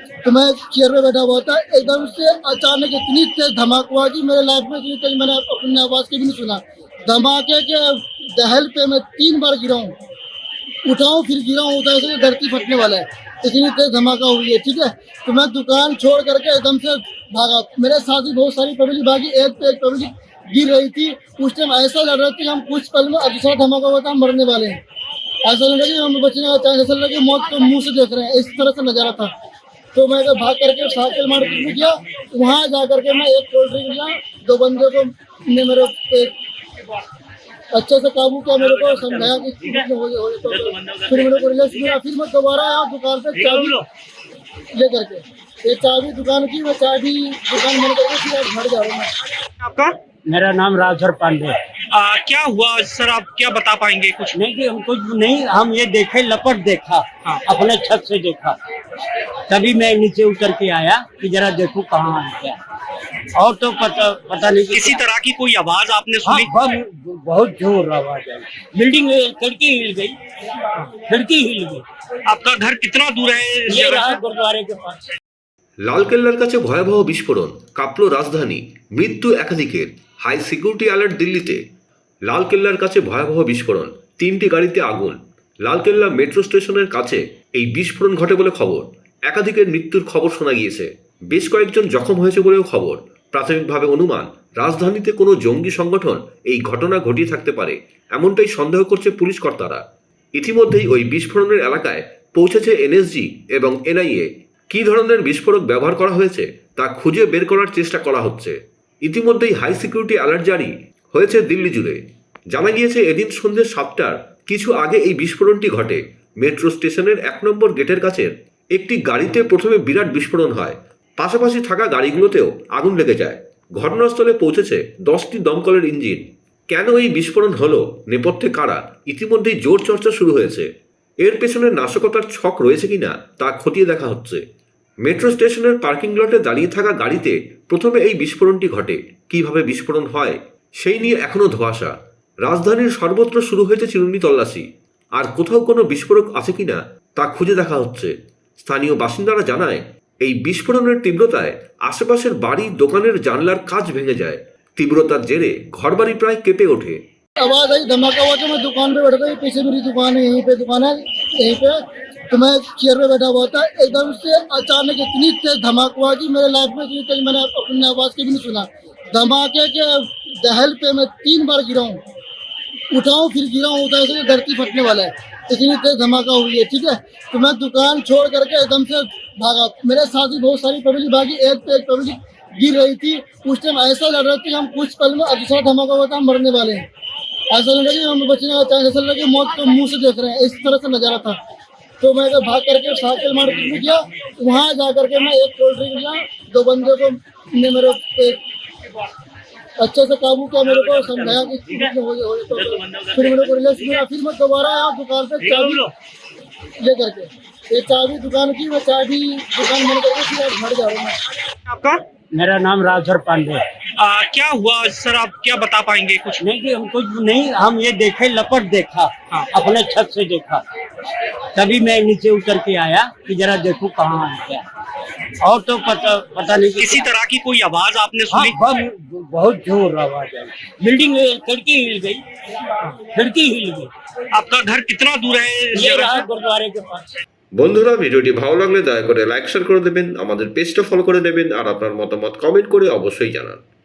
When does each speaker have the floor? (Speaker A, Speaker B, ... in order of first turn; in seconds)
Speaker A: 0.2-9.9, 10.9-24.8, 25.4-29.3, 29.9-36.3, 37.7-43.8, 44.7-49.1, 157.4-161.8, 162.3-172.0, 172.9-186.8, 187.5-191.4, 192.0-198.4, 199.8-205.8, 206.8-211.2
Speaker B: 38.6-39.7, 40.6-41.1, 43.4-43.9, 49.6-50.0, 51.9-54.4, 64.7-66.5, 72.3-74.2, 200.7-201.7, 202.8-203.6, 205.4-205.8, 211.7-212.0, 214.0-216.4, 226.8-228.6, 234.3-236.3
Speaker C: 50.3-51.5, 54.3-58.6, 59.5-62.6, 63.4-65.0, 66.2-70.2, 71.0-71.8, 73.7-75.1, 212.3-213.6, 216.4-220.6, 221.6-224.7, 225.4-227.1, 228.3-232.2, 233.1-233.9, 235.7-237.2
Speaker D: 75.8-81.6, 82.3-99.8, 100.4-112.0, 112.5-130.7, 131.2-134.4, 135.0-141.9, 142.4-144.7, 145.2-157.0, 237.6-243.6